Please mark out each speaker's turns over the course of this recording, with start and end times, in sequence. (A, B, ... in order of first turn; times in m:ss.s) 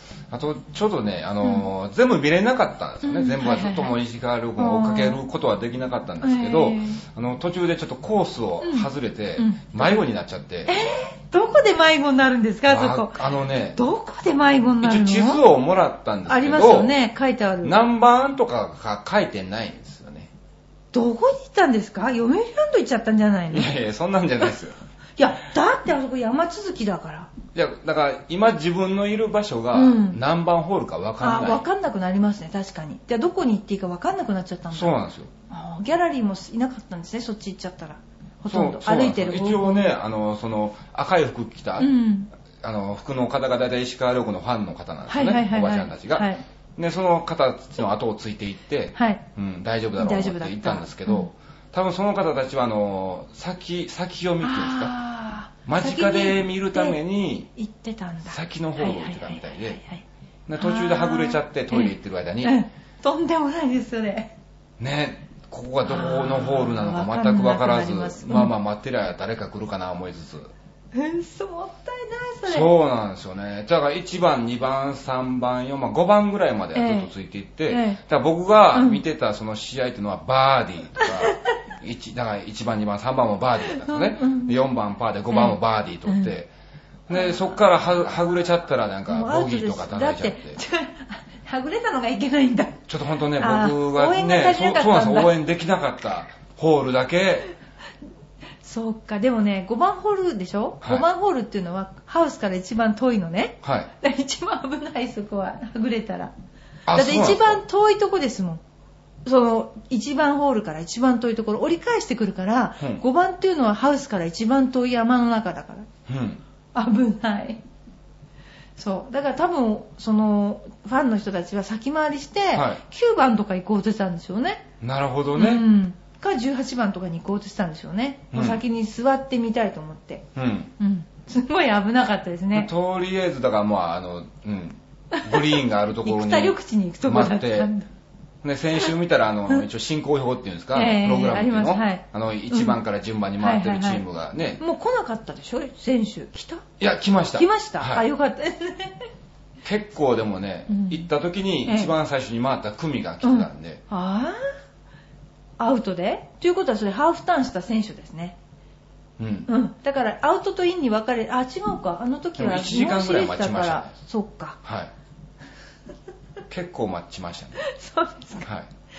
0:00.3-0:11.0 A
0:03.0-0:04.0 B
0:04.6-0:05.2 B
0:06.2-0:07.0 B
0:08.6-0:10.0 B
0:10.7-0:15.4 B
0:12.7-0:13.8 A
0:14.8-0:17.0 A
0:16.3-0:17.8 B
0:17.6-0:20.3 A
0:20.9-0:23.7 B
0:23.5-0:24.7 A
0:25.2-0:27.3 B
0:27.5-0:31.6 A
0:29.7-0:30.2 B
0:31.2-0:39.9 B
0:34.7-0:35.3 A
0:38.5-0:41.9 A
0:41.8-0:42.3 B
0:42.6-0:54.9 A
0:45.1-0:46.4 B
0:49.0-0:49.2 B
0:50.0-0:51.3 B
0:54.4-0:57.0 B
0:55.7-0:57.5 A
0:57.6-1:00.0 B
0:58.3-0:59.8 A
1:00.5-1:02.6 A
1:00.6-1:04.3 B
1:04.8-1:10.5 A
1:05.8-1:08.5 B
1:10.9-1:12.7 B
1:12.5-1:26.5 A
1:16.8-1:17.1 B
1:17.7-1:18.0 B
1:18.7-1:19.0 B
1:21.0-1:21.5 B
1:23.7-1:24.6 B
1:25.3-1:26.3 B
1:27.1-1:30.6 A
1:27.1-1:27.6 B
1:29.1-1:32.8 B
1:32.9-1:37.5 A
1:33.4-1:35.4 B
1:38.6-1:46.3 B
1:43.6-1:43.9 A
1:46.9-1:47.6 A
1:46.9-1:48.6 B
1:49.2-1:55.9 B
1:56.1-1:56.4 A
1:56.7-1:57.6 B
1:58.8-2:04.7 B
2:02.5-2:02.8 A
2:04.8-2:05.6 A
2:05.4-2:10.3 B
2:08.3-2:08.6 A
2:10.4-2:10.7 A
2:10.8-2:12.7 B
2:12.5-2:17.7 A
2:15.1-2:17.9 B
2:18.4-2:24.6 A
2:20.7-2:22.8 B
2:23.4-2:24.0 B
2:24.6-2:26.6 B
2:26.8-2:28.0 A
2:27.4-2:29.1 B
2:29.6-2:33.8 A
2:30.7-2:31.1 B
2:31.6-2:31.9 B
2:33.2-2:34.5 B
2:35.6-2:38.4 B
2:39.2-2:39.5 A
2:39.5-2:44.6 B
2:42.4-2:43.9 A
2:44.6-2:44.9 A
2:46.5-2:47.6 A
2:47.6-2:48.5 B